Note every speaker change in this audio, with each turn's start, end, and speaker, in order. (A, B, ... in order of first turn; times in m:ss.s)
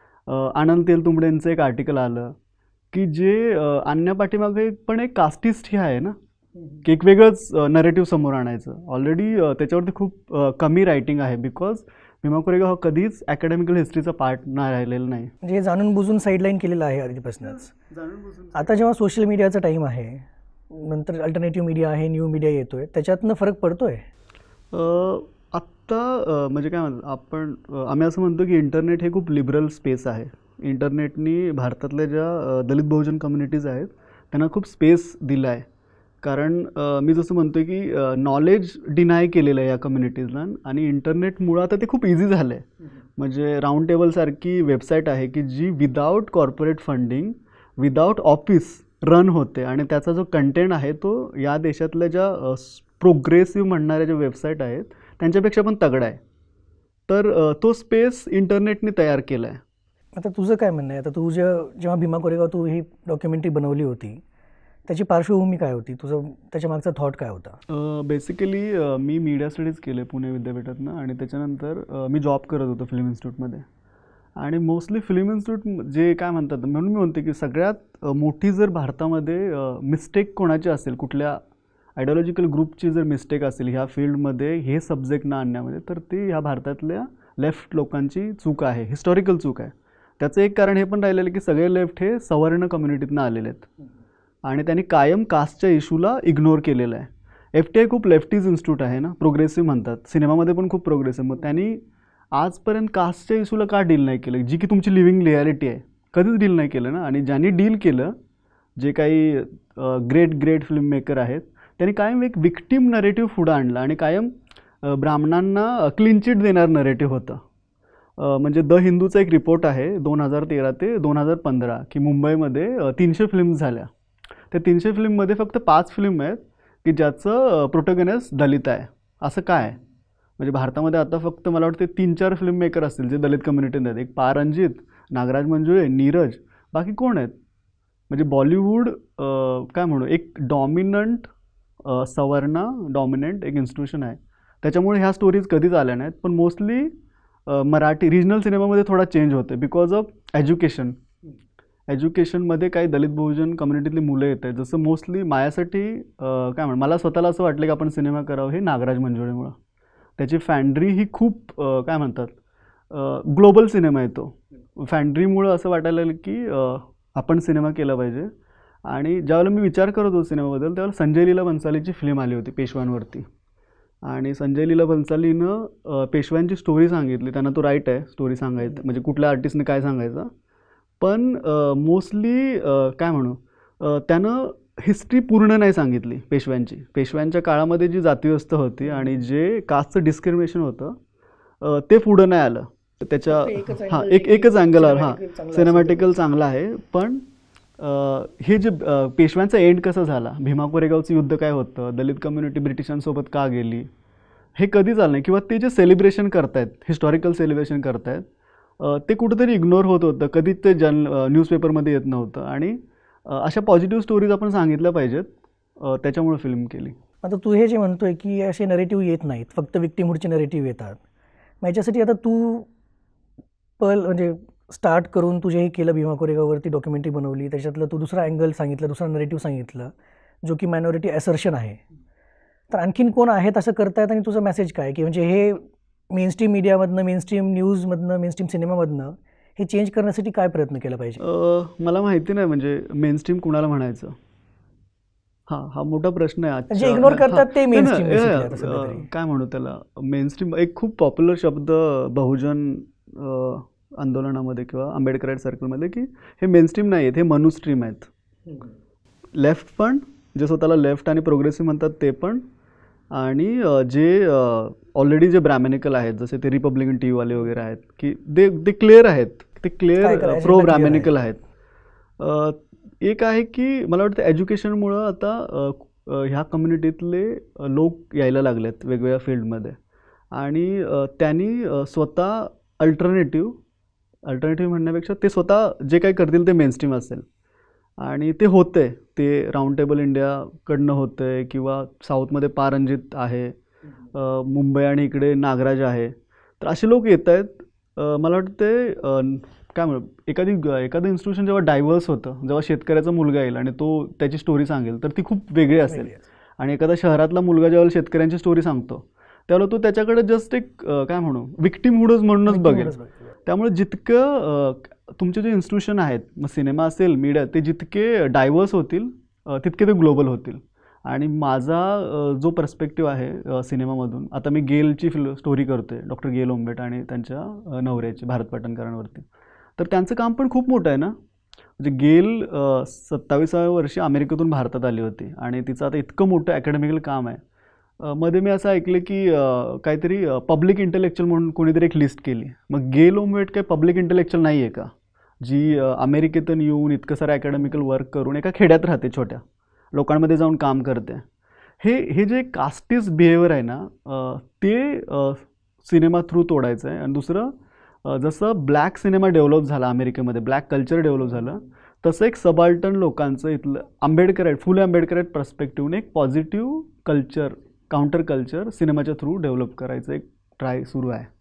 0:00.3-0:02.4 A
0:02.9-0:06.2 A
0:06.8-0:15.3 A
0:15.4-0:17.7 B
0:17.7-0:18.7 A
0:18.6-0:24.0 B
0:24.7-0:35.6 A
0:36.2-0:56.2 A
0:57.1-0:59.6 A
1:00.2-1:04.2 B
1:04.9-1:07.6 B
1:07.7-1:13.7 A
1:14.4-1:21.4 A
1:22.0-1:33.7 A
1:34.4-1:41.8 A
1:42.3-1:48.1 A
1:48.8-1:57.4 A
1:58.2-2:03.9 A
2:04.5-2:09.8 A
2:10.4-2:17.4 A
2:18.1-2:21.3 A
2:21.8-2:26.9 A
2:27.5-2:31.0 A
2:31.9-2:39.6 A
2:40.2-2:42.4 A
2:42.9-2:48.3 A
2:48.9-2:53.3 A
2:54.0-3:00.3 A
3:01.0-3:10.9 A
3:11.6-3:17.2 A
3:13.3-3:16.1 B
3:17.8-3:23.9 A
3:24.6-3:28.2 A
3:28.8-3:37.0 A
3:37.2-3:41.0 B
3:41.6-3:42.7 B
3:43.8-3:49.9 B
3:50.4-3:51.8 B
3:52.7-4:01.2 B
4:01.2-4:04.2 A
4:05.5-4:18.1 A
4:06.7-4:09.1 B
4:19.4-4:22.4 A
4:23.1-4:31.4 A
4:30.0-4:31.1 B
4:32.2-4:39.8 A
4:40.3-4:43.6 A
4:44.3-4:47.2 A
4:48.0-4:53.6 A
4:54.1-5:13.0 A
5:05.9-5:06.2 B
5:12.5-5:13.3 B
5:13.5-5:29.3 A
5:29.8-5:31.1 A
5:31.8-5:37.4 A
5:38.0-5:44.9 A
5:45.4-5:49.4 A
5:49.9-5:51.2 A
5:51.8-5:57.5 A
5:58.0-6:11.3 A